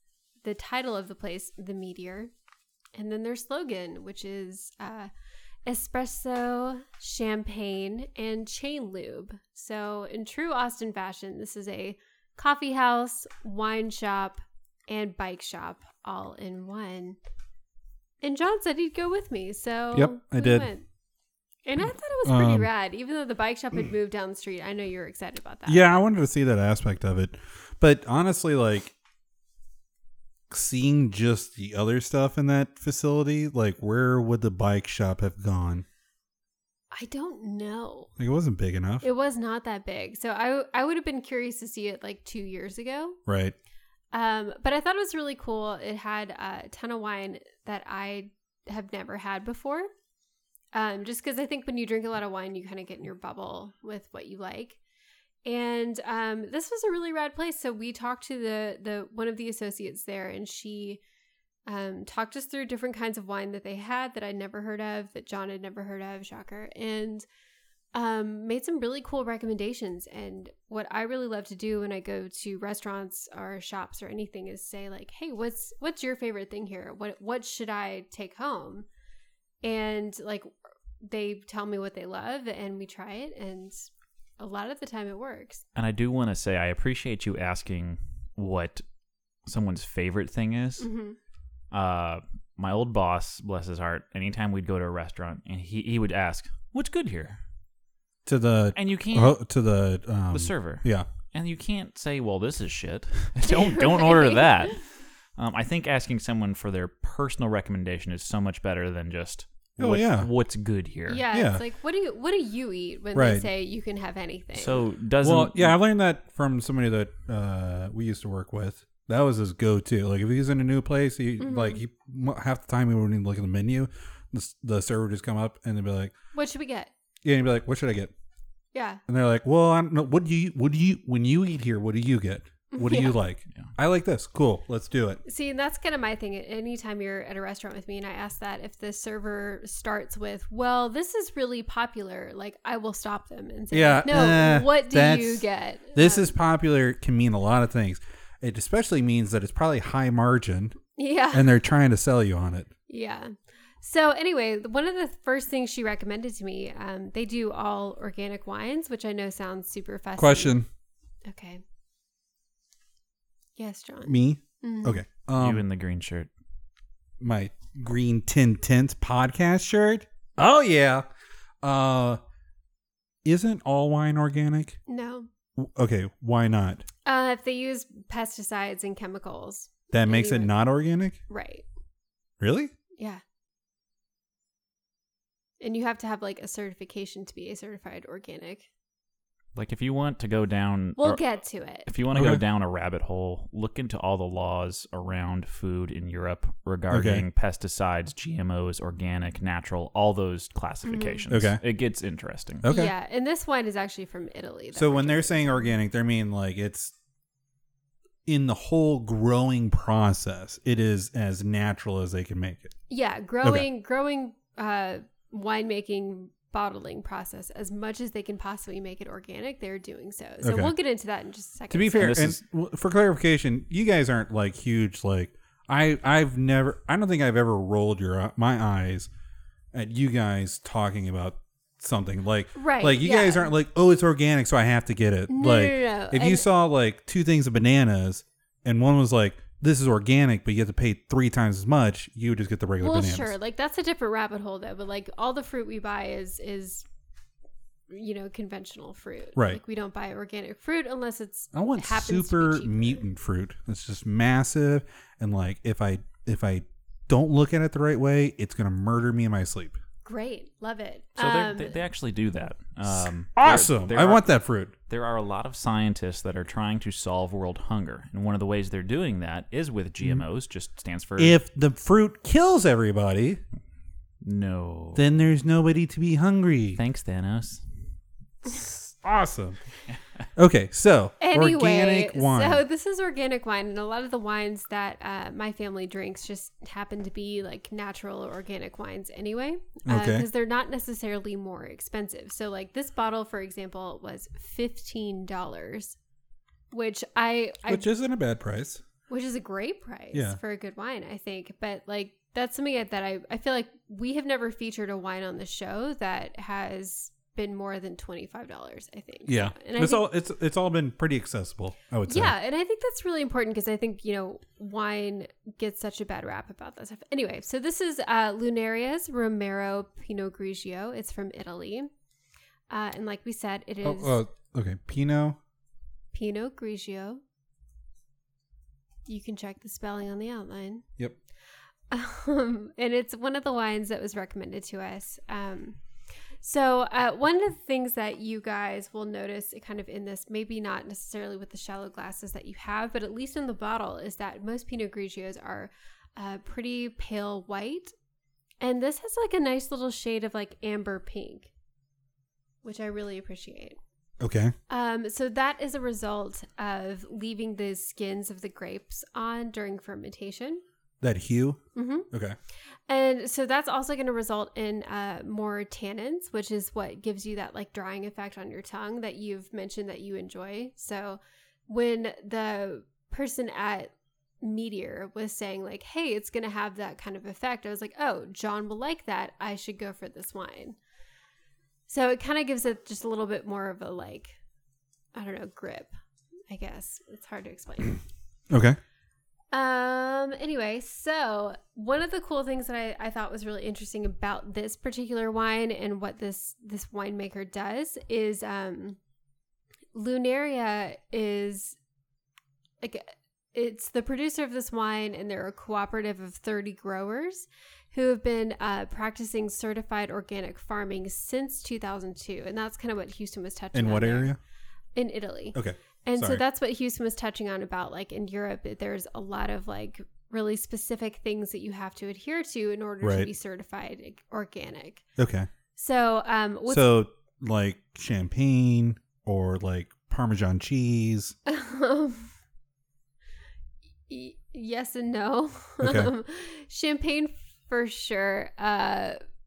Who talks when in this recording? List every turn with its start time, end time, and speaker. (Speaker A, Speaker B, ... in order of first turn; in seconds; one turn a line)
Speaker A: 0.4-2.3
Speaker A: 2.9-5.1
Speaker A: 5.7-17.2
Speaker A: 18.2-20.9
Speaker B: 19.9-20.7
Speaker A: 21.6-25.9
Speaker B: 22.2-22.7
Speaker B: 25.6-28.9
Speaker B: 30.5-35.9
Speaker A: 36.9-38.1
Speaker B: 38.2-39.0
Speaker A: 39.0-43.2
Speaker B: 43.3-43.5
Speaker A: 44.1-49.9
Speaker A: 50.7-54.8
Speaker A: 55.4-61.0
Speaker A: 61.7-67.2
Speaker A: 67.9-78.9
Speaker A: 79.6-83.9
Speaker A: 84.4-85.6
Speaker C: 85.7-88.8
Speaker C: 89.5-90.9
Speaker A: 90.8-91.2
Speaker C: 91.7-97.4
Speaker B: 98.2-101.1
Speaker C: 98.7-99.4
Speaker C: 100.3-104.8
Speaker A: 103.5-104.7
Speaker C: 105.4-111.2
Speaker B: 109.8-110.3
Speaker A: 111.1-114.8
Speaker B: 111.3-111.6
Speaker B: 113.1-113.5
Speaker C: 114.6-115.8
Speaker B: 115.2-126.1
Speaker A: 121.4-121.8
Speaker A: 126.3-126.9
Speaker B: 127.2-128.1
Speaker A: 128.7-129.0
Speaker B: 129.1-135.2
Speaker A: 132.7-133.2
Speaker A: 135.2-146.3
Speaker B: 143.7-150.8
Speaker A: 150.9-151.6
Speaker B: 151.3-152.7
Speaker A: 152.9-160.6
Speaker B: 160.2-160.7
Speaker A: 161.3-161.6
Speaker A: 163.6-165.0
Speaker B: 164.1-165.6
Speaker C: 165.4-166.3
Speaker B: 167.2-171.1
Speaker B: 171.6-172.2
Speaker B: 173.2-174.8
Speaker A: 174.9-175.3
Speaker B: 175.6-176.9
Speaker A: 177.1-180.5
Speaker B: 179.9-181.2
Speaker A: 181.3-181.7
Speaker B: 182.4-182.7
Speaker A: 185.6-188.7
Speaker C: 189.6-191.2
Speaker A: 191.0-191.9
Speaker C: 191.8-202.6
Speaker B: 192.1-192.4
Speaker B: 196.9-197.2
Speaker A: 200.8-201.2
Speaker B: 201.3-201.6
Speaker B: 202.6-202.9
Speaker A: 202.6-205.7
Speaker B: 204.7-206.9
Speaker B: 208.3-212.7
Speaker A: 212.9-222.2
Speaker B: 220.4-220.7
Speaker B: 221.7-229.1
Speaker C: 222.0-222.4
Speaker B: 229.7-243.3
Speaker A: 232.6-233.5
Speaker A: 235.3-236.5
Speaker A: 242.8-246.9
Speaker A: 247.9-253.1
Speaker B: 251.5-259.8
Speaker A: 260.1-261.8
Speaker C: 261.2-264.2
Speaker B: 262.9-264.7
Speaker C: 264.9-271.4
Speaker B: 271.2-273.4
Speaker C: 274.2-275.1
Speaker B: 274.9-276.8
Speaker C: 276.8-277.6
Speaker B: 278.4-279.6
Speaker B: 280.4-282.6
Speaker A: 281.2-295.9
Speaker B: 289.9-290.3
Speaker A: 296.7-297.9
Speaker B: 297.7-298.8
Speaker A: 299.1-310.1
Speaker B: 300.1-300.4
Speaker B: 309.3-312.3
Speaker A: 312.1-321.9
Speaker A: 322.7-324.2
Speaker B: 323.8-325.4
Speaker A: 326.1-327.2
Speaker A: 329.1-330.9
Speaker A: 331.9-335.8
Speaker A: 336.4-347.9
Speaker A: 348.6-351.5
Speaker A: 352.6-353.8
Speaker B: 354.2-354.5
Speaker A: 354.7-360.6
Speaker B: 361.0-361.6
Speaker A: 361.7-362.1
Speaker B: 362.1-362.4
Speaker A: 362.9-380.8
Speaker A: 381.9-384.4
Speaker A: 385.1-385.9
Speaker A: 386.5-388.0
Speaker B: 388.5-388.8
Speaker A: 389.5-399.0
Speaker A: 399.9-401.8
Speaker A: 402.8-414.3
Speaker B: 413.7-414.4
Speaker A: 414.9-425.0
Speaker B: 415.5-416.4
Speaker B: 423.0-423.3
Speaker B: 425.2-425.5
Speaker A: 425.7-426.9
Speaker B: 426.7-431.3
Speaker A: 431.4-432.3
Speaker A: 434.1-439.2
Speaker B: 435.8-436.1